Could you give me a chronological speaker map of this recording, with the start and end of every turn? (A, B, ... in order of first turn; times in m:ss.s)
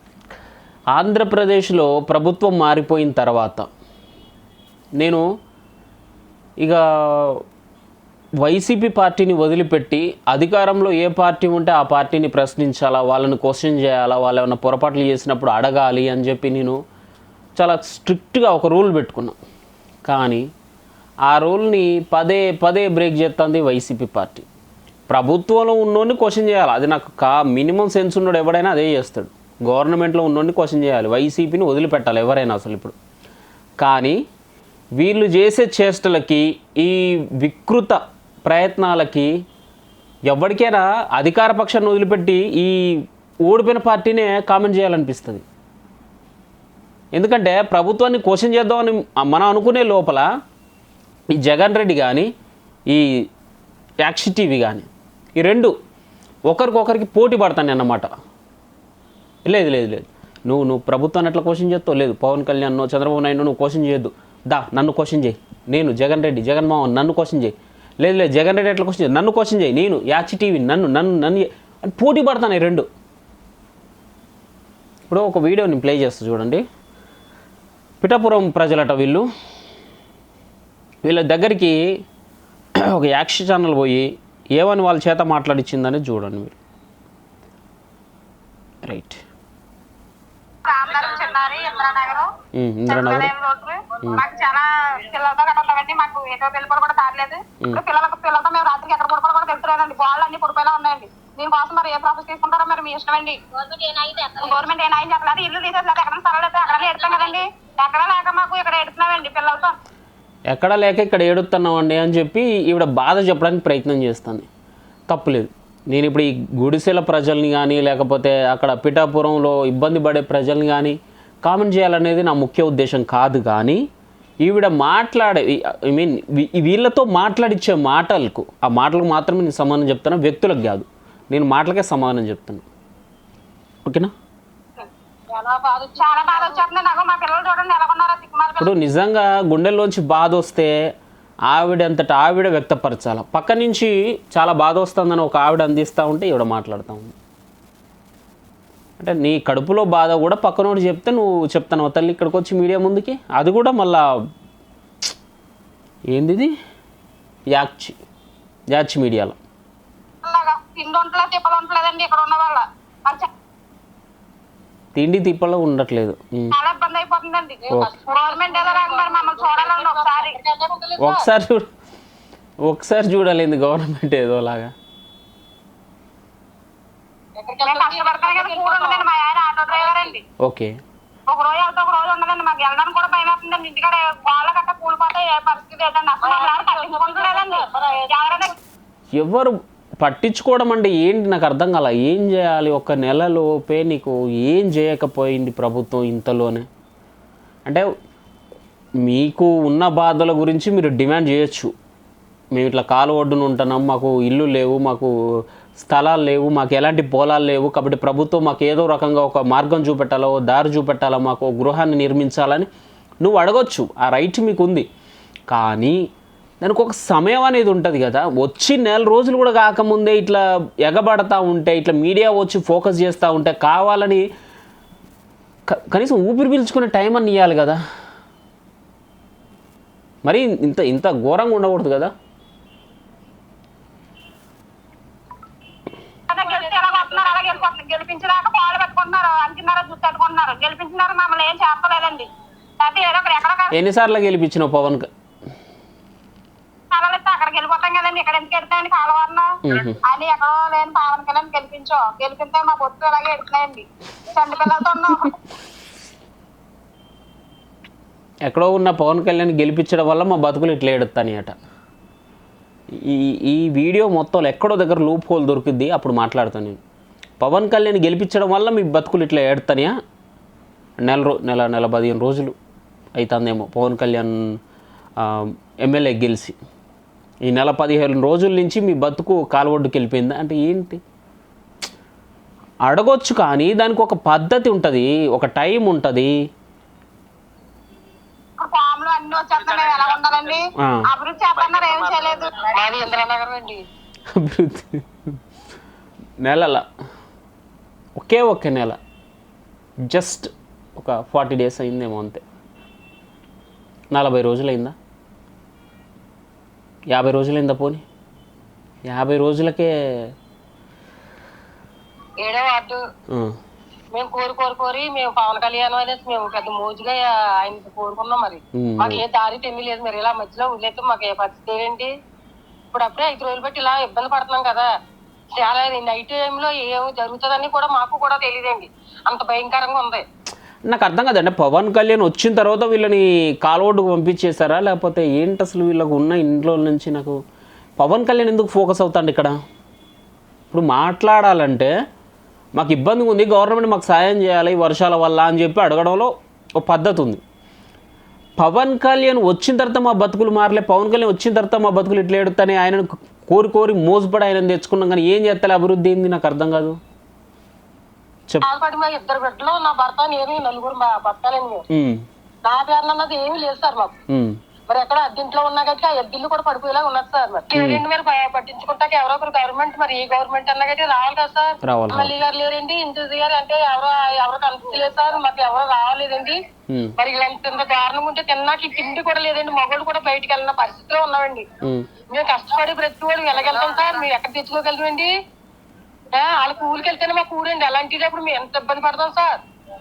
0:00.9-0:03.7 A
0:05.0-0:05.2 A
0:06.6-0:07.4 A
0:08.4-0:16.8 A
0:17.6-0:19.4 A
0:20.0-0:20.4 A
0:21.3-0:24.5 A
0:25.1-0:33.0 A
0:33.8-0:34.2 A
0:35.0-0:39.3 A
0:40.3-0:45.4 A
0:47.2-0:50.3 A
0:51.3-0:52.3 A
0:54.0-0:55.7 A
0:56.5-0:58.1 A
0:59.4-1:12.9 A
1:15.1-1:16.6 A
1:18.0-1:19.3 A
1:21.0-1:21.8 A
1:22.8-1:26.6 A
1:28.8-1:29.2 A
1:30.7-1:32.3 B
1:32.6-1:33.3 A
1:32.9-1:49.8 B
1:50.5-1:54.5 A
1:55.1-2:03.8 A
2:04.4-2:12.6 A
2:13.8-2:14.1 A
2:14.8-2:16.6 C
2:16.0-2:18.7 B
2:18.6-2:20.7 A
2:21.5-2:27.1 A
2:29.0-2:34.0 A
2:36.1-2:36.5 A
2:37.5-2:38.0 A
2:38.7-2:39.4 A
2:40.2-2:43.3 B
2:44.9-2:46.5 A
2:46.5-2:50.4 B
2:47.6-2:51.2 C
2:51.0-2:51.7 A
2:52.6-2:54.7 A
2:57.4-2:59.0 C
2:57.6-3:00.2 B
2:59.7-3:00.2 C
3:00.4-3:00.7 A
3:01.3-3:08.5 B
3:06.2-3:08.5 C
3:09.1-3:16.7 A
3:19.0-3:21.7 A
3:22.5-3:25.1 A
3:25.8-3:32.7 A
3:33.2-3:34.9 A
3:35.5-3:36.0 A
3:36.6-3:44.2 A
3:45.7-3:47.8 A
3:50.2-3:52.1 A
3:56.3-4:02.3 B
3:56.3-3:57.6 C
4:02.8-4:03.8 B
4:03.7-4:05.1 A
4:06.9-4:15.4 B
4:09.6-4:10.0 A
4:18.4-4:21.5 A
4:23.0-4:26.8 A
4:27.4-4:29.9 A
4:31.0-4:32.5 A
4:33.2-4:34.6 A
4:35.2-4:36.6 A
4:37.4-4:41.0 A
4:42.8-4:46.3 A
4:48.6-4:52.6 B
4:52.7-4:53.8 C
4:54.4-4:55.0 A
4:56.4-4:56.8 A
4:58.2-4:59.0 A
5:00.1-5:02.4 A
5:04.1-5:04.9 A
5:07.1-5:08.0 A
5:09.1-5:09.9 A
5:12.4-5:13.0 C
5:14.1-5:22.1 C
5:18.8-5:19.2 A
5:22.9-5:24.9 C
5:25.6-5:30.2 C
5:30.9-5:37.4 A
5:38.0-5:39.6 A
5:40.7-5:41.9 A
5:42.8-5:46.3 A
5:46.8-5:47.4 A
5:48.6-5:57.0 A
5:58.6-6:01.8 C
6:01.9-6:02.2 A
6:02.6-6:04.1 C
6:04.3-6:04.5 A
6:04.9-6:16.6 C
6:07.7-6:08.0 A
6:11.8-6:12.3 A
6:16.9-6:17.1 A
6:17.2-6:21.6 C
6:22.3-6:25.3 C
6:26.3-6:29.6 C